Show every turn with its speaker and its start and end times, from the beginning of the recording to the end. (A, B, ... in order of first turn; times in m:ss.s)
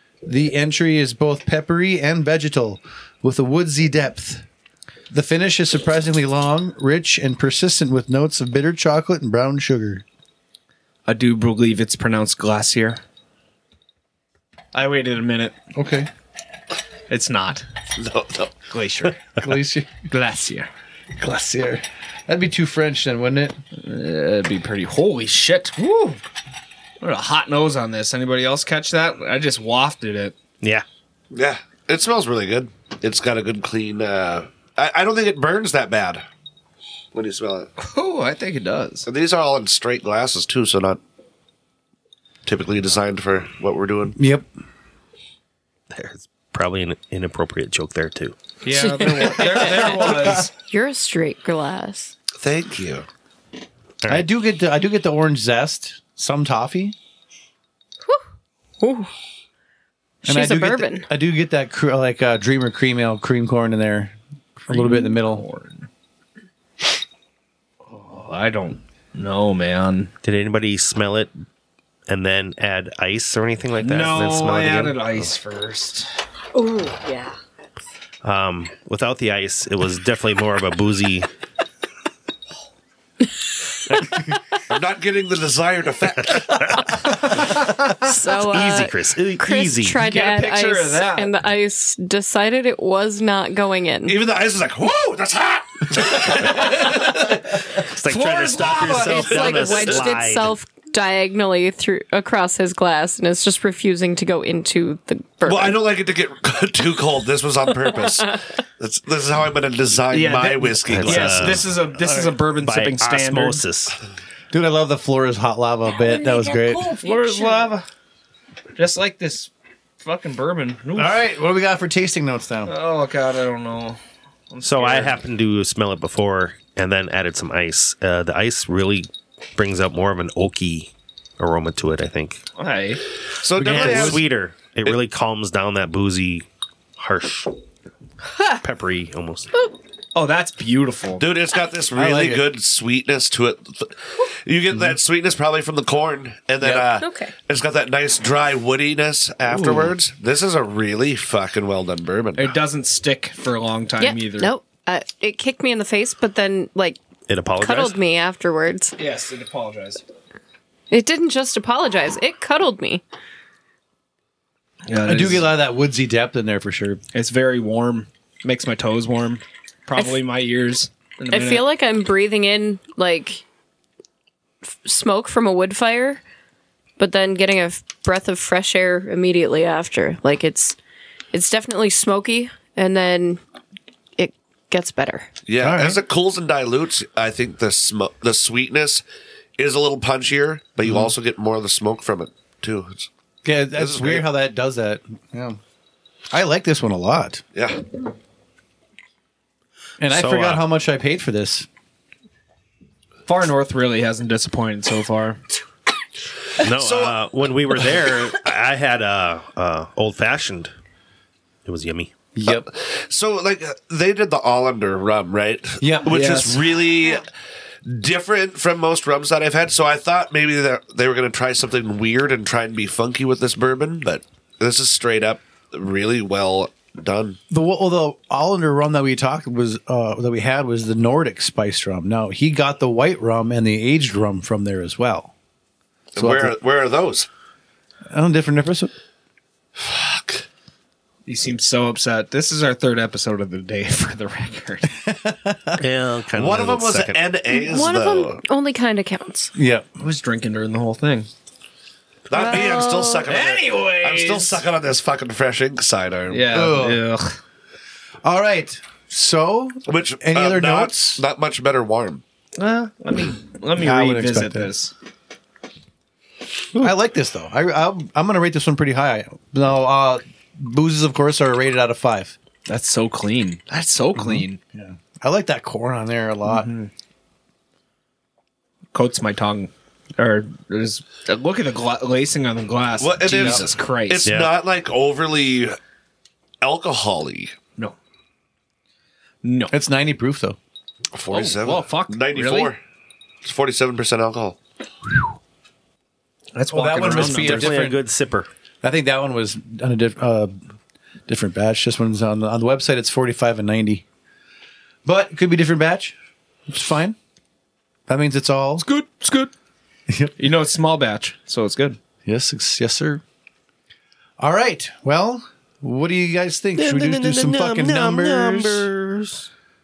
0:00.2-0:04.4 A
0:05.1-0:10.0 A
0:11.1-0:13.0 B
0:14.7-0:15.6 B
0:15.7-0:16.1 A
0:17.1-0:17.7 B
0:18.0-0:18.6 C
0:18.7-0:19.4 B
0:19.4-0:19.9 A
0:20.1-0:20.7 B
0:21.2-0:23.6 A
0:23.8-0:26.2 B
0:27.0-0:30.4 B
0:31.3-0:36.2 C
0:37.1-0:37.7 C
0:37.8-0:39.1 B
0:39.0-0:41.0 C
0:42.4-0:44.2 C
0:44.2-0:44.5 A
0:45.9-0:48.4 D
0:48.6-0:50.5 B
0:48.7-0:49.6 E
0:49.1-0:50.4 A
0:50.6-0:52.1 E
0:52.4-0:53.1 C
0:54.1-0:57.0 A
0:58.8-0:59.1 E
1:00.2-1:01.1 E
1:00.3-1:05.4 A
1:04.7-1:05.9 B
1:07.9-1:10.1 B
1:10.2-1:11.3 D
1:12.1-1:15.3 D
1:13.8-1:16.1 B
1:16.6-1:17.3 E
1:18.2-1:21.3 D
1:23.9-1:24.2 D
1:24.7-1:26.7 C
1:28.0-1:34.2 E
1:28.2-1:30.0 D
1:30.0-1:31.3 B
1:34.1-1:37.6 C
1:37.8-1:40.6 D
1:38.0-1:40.0 B
1:38.9-1:45.8 E
1:45.4-1:51.6 C
1:47.9-1:48.3 E
1:50.1-1:53.6 B
1:50.8-1:51.8 D
1:52.6-1:54.0 D
1:54.5-1:56.8 A
1:56.8-1:57.9 B
1:58.8-2:01.2 B
2:01.0-2:02.7 A
2:02.7-2:04.0 B
2:04.5-2:05.2 B
2:04.6-2:12.4 D
2:12.6-2:13.0 B
2:13.4-2:14.2 C
2:13.6-2:14.2 A
2:13.6-2:16.4 D
2:17.0-2:17.5 D
2:18.6-2:19.5 D
2:20.2-2:21.2 B
2:21.2-2:32.6 C
2:22.0-2:22.5 A
2:26.6-2:26.9 A
2:27.0-2:27.3 E
2:29.5-2:29.9 B
2:32.4-2:34.5 B
2:34.0-2:37.0 E
2:37.3-2:38.0 D
2:37.6-2:39.0 E
2:39.0-2:40.0 B
2:40.9-2:43.0 E
2:44.9-2:45.5 B
2:45.1-2:47.0 A
2:47.1-2:51.7 B
2:51.3-2:53.4 E
2:54.8-2:56.2 E
2:57.0-3:00.8 E
3:01.3-3:03.4 E
3:04.2-3:05.3 E
3:05.5-3:09.0 C
3:05.6-3:06.0 A
3:09.6-3:13.1 C
3:13.4-3:15.6 A
3:13.8-3:14.3 C
3:16.3-3:17.4 A
3:17.6-3:17.9 C
3:20.0-3:21.7 A
3:20.1-3:20.7 D
3:23.3-3:25.4 B
3:26.6-3:30.7 D
3:26.6-3:27.2 C
3:31.7-3:32.1 D
3:32.4-3:32.7 A
3:32.5-3:37.3 C
3:35.8-3:36.6 A
3:36.1-3:36.6 B
3:37.8-3:47.4 C
3:47.5-3:55.3 A
3:56.1-3:57.3 C
3:56.2-3:56.6 A
3:58.1-3:58.9 A
3:59.8-4:00.4 C
4:01.3-4:04.9 B
4:05.0-4:05.8 A
4:05.8-4:07.3 D
4:06.4-4:08.4 C
4:07.5-4:09.5 E
4:09.6-4:09.9 A
4:10.0-4:11.3 B
4:12.3-4:16.5 C
4:12.3-4:13.2 E
4:13.2-4:14.6 B
4:16.3-4:17.4 B
4:16.5-4:17.0 A
4:18.2-4:21.2 A
4:19.9-4:22.2 C
4:22.6-4:24.9 B
4:23.7-4:24.7 A
4:26.8-4:32.4 A
4:32.7-4:34.6 B
4:34.2-4:36.7 A
4:36.5-4:36.9 B
4:38.9-4:44.3 B
4:43.0-4:45.8 C
4:43.4-4:43.6 A
4:44.2-4:44.5 D
4:46.6-4:47.5 C
4:49.4-4:49.8 B
4:49.7-4:50.6 A
4:51.1-4:52.8 C
4:51.3-4:52.7 B
4:53.4-4:54.6 C
4:56.5-4:57.8 B
4:56.7-4:58.0 A
4:57.2-4:58.5 D
4:58.8-5:00.5 A
5:01.3-5:04.0 A
5:05.0-5:06.2 A
5:06.7-5:07.2 A
5:08.1-5:08.9 A
5:08.8-5:09.5 B
5:10.1-5:10.3 A
5:10.4-5:12.0 B
5:12.2-5:13.2 A
5:14.4-5:18.9 A
5:16.8-5:19.5 D